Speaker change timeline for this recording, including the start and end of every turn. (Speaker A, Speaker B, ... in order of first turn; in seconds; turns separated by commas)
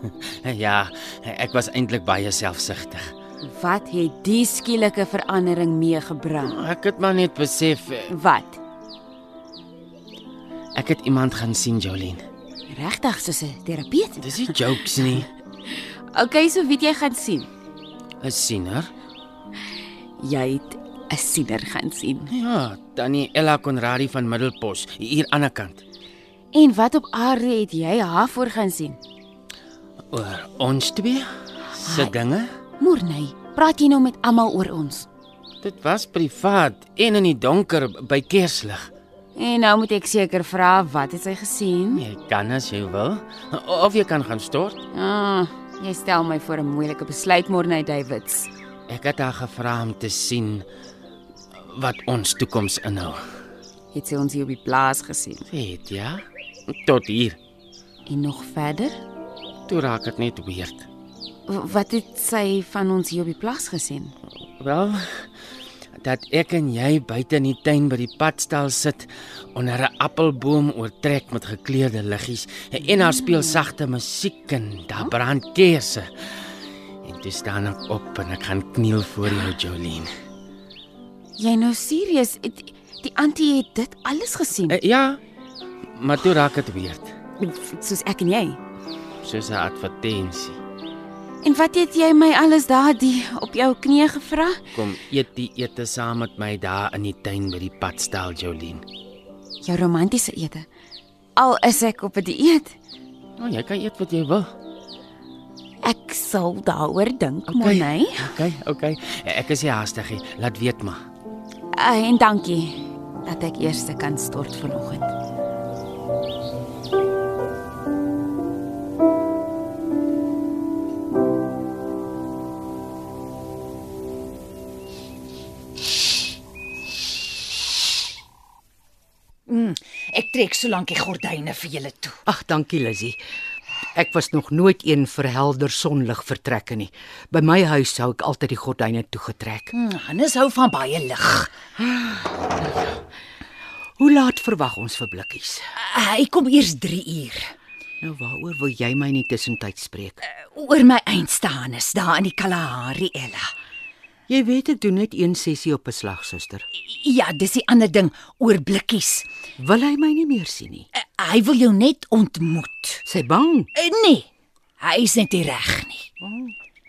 Speaker A: 0.3-3.1, Speaker B: 3.4-6.6, Speaker A: 6.4-8.1, Speaker B: 8.1-8.6, Speaker A: 10.8-12.2, Speaker B: 12.7-14.3, Speaker A: 14.2-15.3, Speaker B: 15.2-17.5, Speaker A: 18.2-18.9, Speaker B: 20.2-22.3, Speaker A: 22.3-25.8, Speaker B: 26.5-29.0, Speaker A: 30.1-32.5, Speaker B: 31.8-32.2, Speaker B: 32.8-35.1, Speaker A: 35.6-38.9, Speaker B: 39.4-42.0, Speaker A: 41.9-44.8, Speaker B: 44.9-48.5, Speaker A: 48.9-50.6, Speaker A: 51.7-53.2, Speaker B: 53.9-55.5, Speaker A: 55.5-57.4, Speaker B: 58.1-59.0, Speaker A: 59.7-60.9, Speaker B: 61.5-64.2, Speaker A: 64.6-65.3, Speaker A: 66.0-76.1, Speaker B: 73.0-73.7, Speaker A: 77.0-80.1, Speaker B: 81.4-84.8, Speaker A: 84.7-85.2, Speaker A: 86.0-87.1, Speaker B: 87.4-88.6, Speaker A: 89.2-90.6, Speaker B: 91.4-94.6, Speaker A: 94.7-98.9, Speaker B: 99.6-100.7, Speaker B: 101.4-102.8, Speaker A: 103.4-104.5, Speaker B: 105.8-108.3, Speaker A: 107.5-111.1, Speaker B: 111.7-115.1, Speaker C: 129.5-132.2, Speaker D: 132.3-133.2, Speaker D: 133.9-139.7, Speaker C: 139.7-141.5, Speaker D: 141.8-143.0, Speaker D: 144.0-145.7, Speaker C: 145.8-147.5, Speaker D: 148.0-150.2, Speaker C: 150.3-153.5, Speaker D: 154.3-156.7, Speaker C: 156.8-159.3, Speaker D: 159.6-160.9, Speaker C: 160.9-163.0, Speaker D: 163.1-163.7, Speaker C: 163.8-164.3, Speaker C: 164.8-166.1, Speaker D: 166.2-166.5